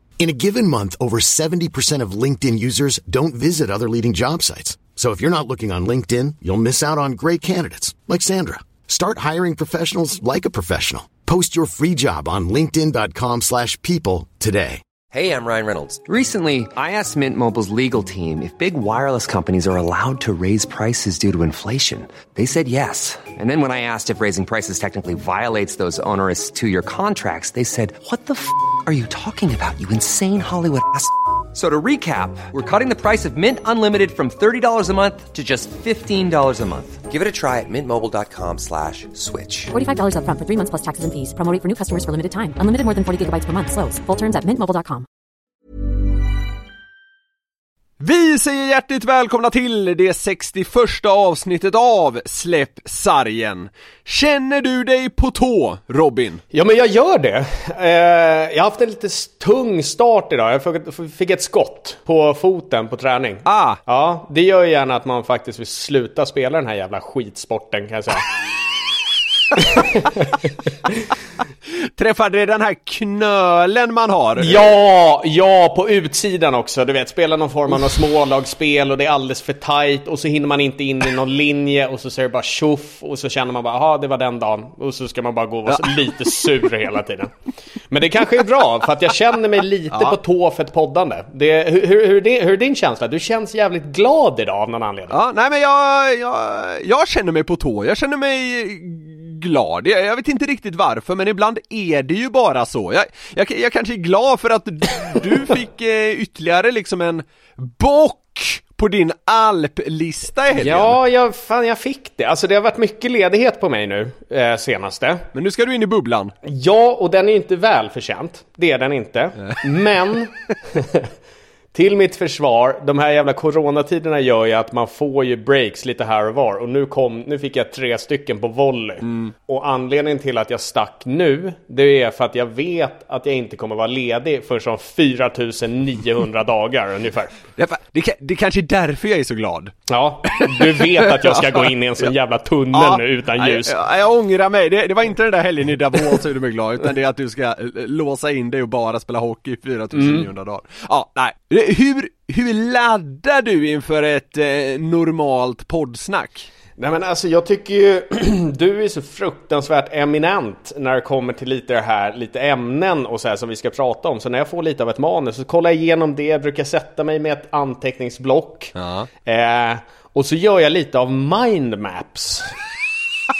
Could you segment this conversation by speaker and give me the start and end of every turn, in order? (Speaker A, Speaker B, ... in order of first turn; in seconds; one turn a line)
Speaker A: 0.2-14.8
Speaker B: 15.1-39.7
Speaker C: 39.7-45.0
Speaker D: 48.0-56.4
Speaker E: 56.5-68.3
Speaker D: 63.5-63.8
Speaker E: 69.5-70.5
Speaker D: 72.0-74.7
Speaker E: 74.4-87.3
Speaker E: 87.9-95.2
Speaker D: 95.1-111.0
Speaker E: 110.5-115.2
Speaker D: 115.3-116.3
Speaker E: 116.4-121.1
Speaker D: 119.4-119.9
Speaker E: 121.7-137.3
Speaker D: 129.0-129.3
Speaker D: 137.6-139.7
Speaker E: 139.9-143.7
Speaker D: 140.3-142.1
Speaker D: 142.7-156.5
Speaker E: 149.9-150.3
Speaker E: 156.8-172.5
Speaker D: 168.8-169.1